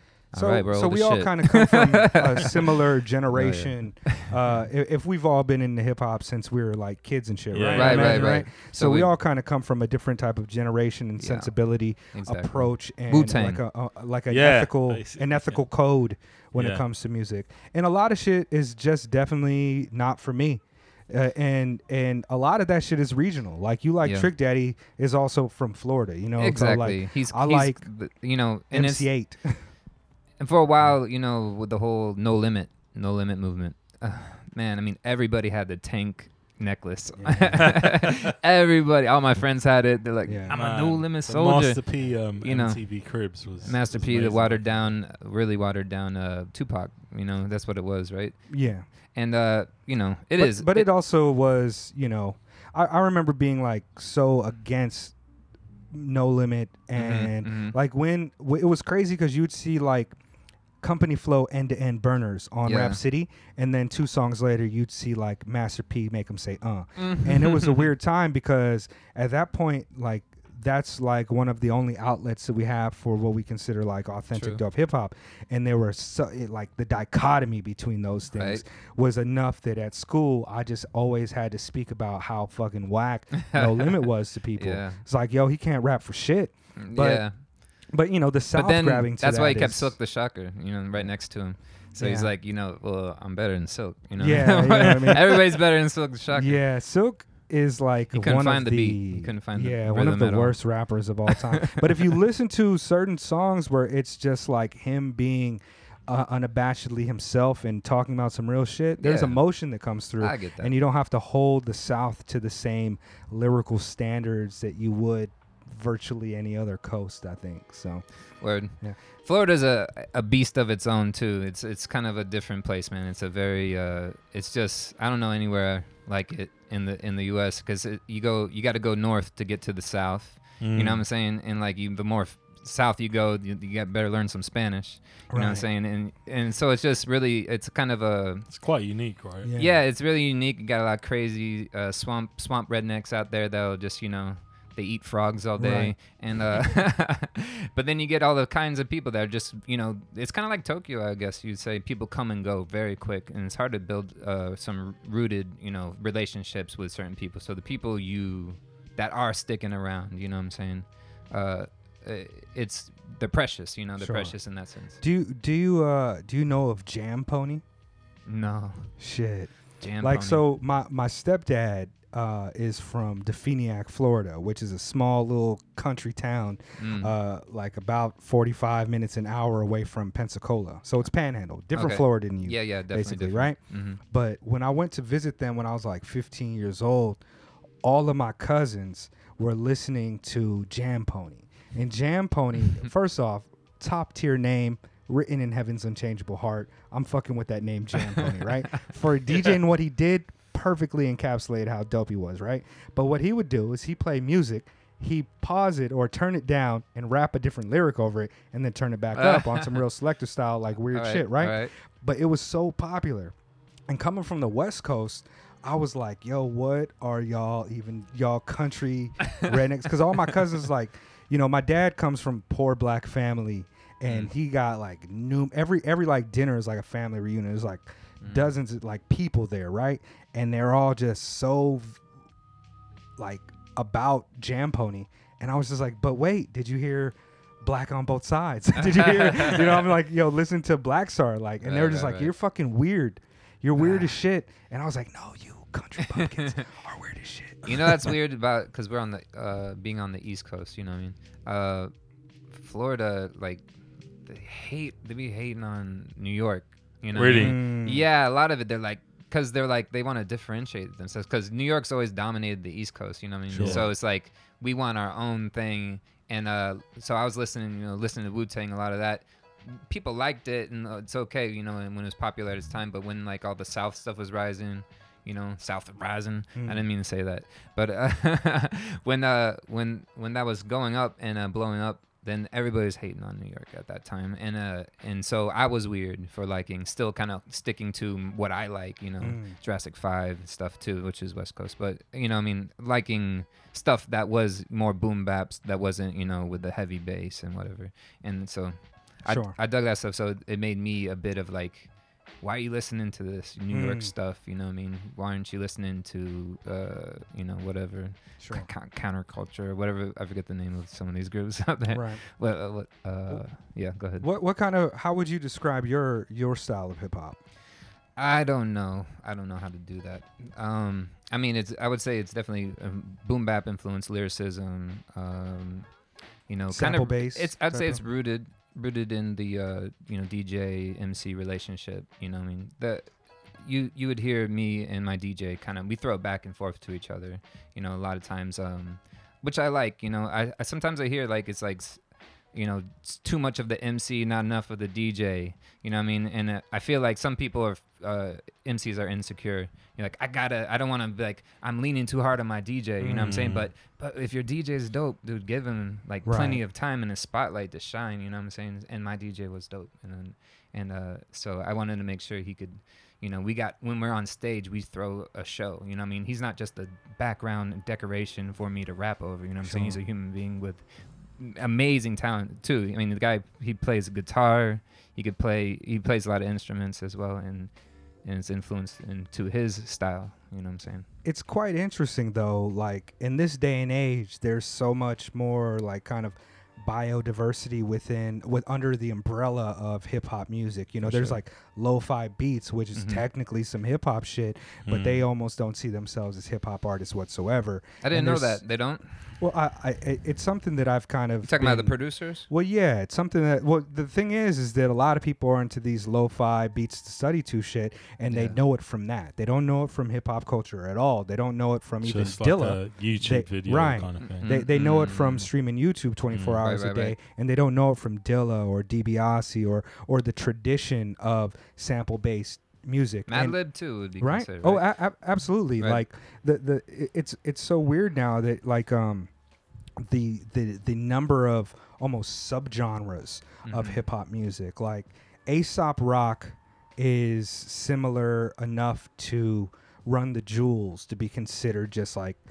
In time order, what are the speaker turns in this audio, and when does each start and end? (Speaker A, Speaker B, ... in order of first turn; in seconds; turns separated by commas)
Speaker A: 0.3-2.6, Speaker B: 0.3-27.8, Speaker C: 3.3-4.0, Speaker A: 4.2-4.5, Speaker C: 7.5-8.4, Speaker A: 7.7-9.1, Speaker A: 11.2-11.5, Speaker A: 12.1-13.6, Speaker C: 14.3-15.6, Speaker C: 16.5-16.8, Speaker A: 24.0-24.3, Speaker A: 26.4-29.1, Speaker B: 28.7-29.6, Speaker A: 30.4-41.8, Speaker B: 37.2-37.6, Speaker C: 37.6-38.1, Speaker B: 40.2-40.5, Speaker C: 40.5-44.9, Speaker A: 42.4-42.8, Speaker A: 43.6-48.4, Speaker B: 48.5-48.8, Speaker A: 49.1-50.9, Speaker B: 50.4-55.1, Speaker B: 55.9-60.1, Speaker A: 56.9-57.8, Speaker B: 60.8-87.2, Speaker A: 62.6-63.0, Speaker A: 67.0-67.9, Speaker A: 74.3-74.6, Speaker A: 78.3-78.6, Speaker A: 83.4-84.0, Speaker A: 84.5-85.0, Speaker A: 86.8-87.4, Speaker B: 87.9-90.0, Speaker A: 88.5-96.6, Speaker B: 92.0-92.3, Speaker B: 94.2-95.5, Speaker B: 96.3-118.0, Speaker A: 98.1-100.6, Speaker A: 101.3-102.1, Speaker A: 109.0-109.4, Speaker A: 110.2-110.7, Speaker A: 118.4-138.5, Speaker C: 130.6-131.0, Speaker B: 135.3-135.6, Speaker C: 138.5-139.5, Speaker B: 139.4-139.8, Speaker A: 139.6-165.0, Speaker B: 145.6-145.9, Speaker B: 164.0-164.3, Speaker B: 165.0-167.6, Speaker A: 168.3-168.9, Speaker B: 169.0-187.2, Speaker A: 169.8-170.4, Speaker A: 176.8-177.1, Speaker A: 181.7-184.0, Speaker B: 187.8-213.3, Speaker A: 198.1-198.8, Speaker A: 209.1-209.8, Speaker A: 210.9-211.7, Speaker B: 213.9-232.0, Speaker A: 228.2-228.5, Speaker B: 233.2-248.1, Speaker A: 238.7-239.6, Speaker A: 241.6-242.3, Speaker A: 243.8-244.1, Speaker A: 246.1-246.7, Speaker A: 247.6-251.9, Speaker A: 252.5-253.6, Speaker A: 254.2-301.9, Speaker C: 257.1-257.6, Speaker B: 257.3-258.0, Speaker C: 263.5-263.8, Speaker B: 276.6-276.8, Speaker B: 289.2-289.5, Speaker B: 299.2-299.6, Speaker A: 302.4-314.3, Speaker B: 303.7-304.1, Speaker B: 308.4-308.7, Speaker B: 311.9-312.2, Speaker B: 314.2-317.4, Speaker A: 318.1-325.9, Speaker A: 326.5-342.0, Speaker B: 326.7-328.0, Speaker A: 342.5-370.8, Speaker B: 353.0-353.4, Speaker C: 353.2-353.6, Speaker B: 356.2-356.6, Speaker B: 369.6-370.0, Speaker A: 371.4-377.7, Speaker A: 378.2-381.1, Speaker B: 381.2-398.6, Speaker A: 391.0-391.4, Speaker A: 392.9-393.2, Speaker C: 394.8-395.2, Speaker A: 398.0-399.1, Speaker B: 399.4-401.9, Speaker A: 401.4-402.5, Speaker B: 402.5-423.6, Speaker A: 408.3-408.6, Speaker C: 412.0-414.5, Speaker A: 414.2-415.5, Speaker A: 416.3-417.2, Speaker A: 423.3-424.8, Speaker B: 424.2-429.3, Speaker B: 430.0-442.4, Speaker A: 433.6-434.0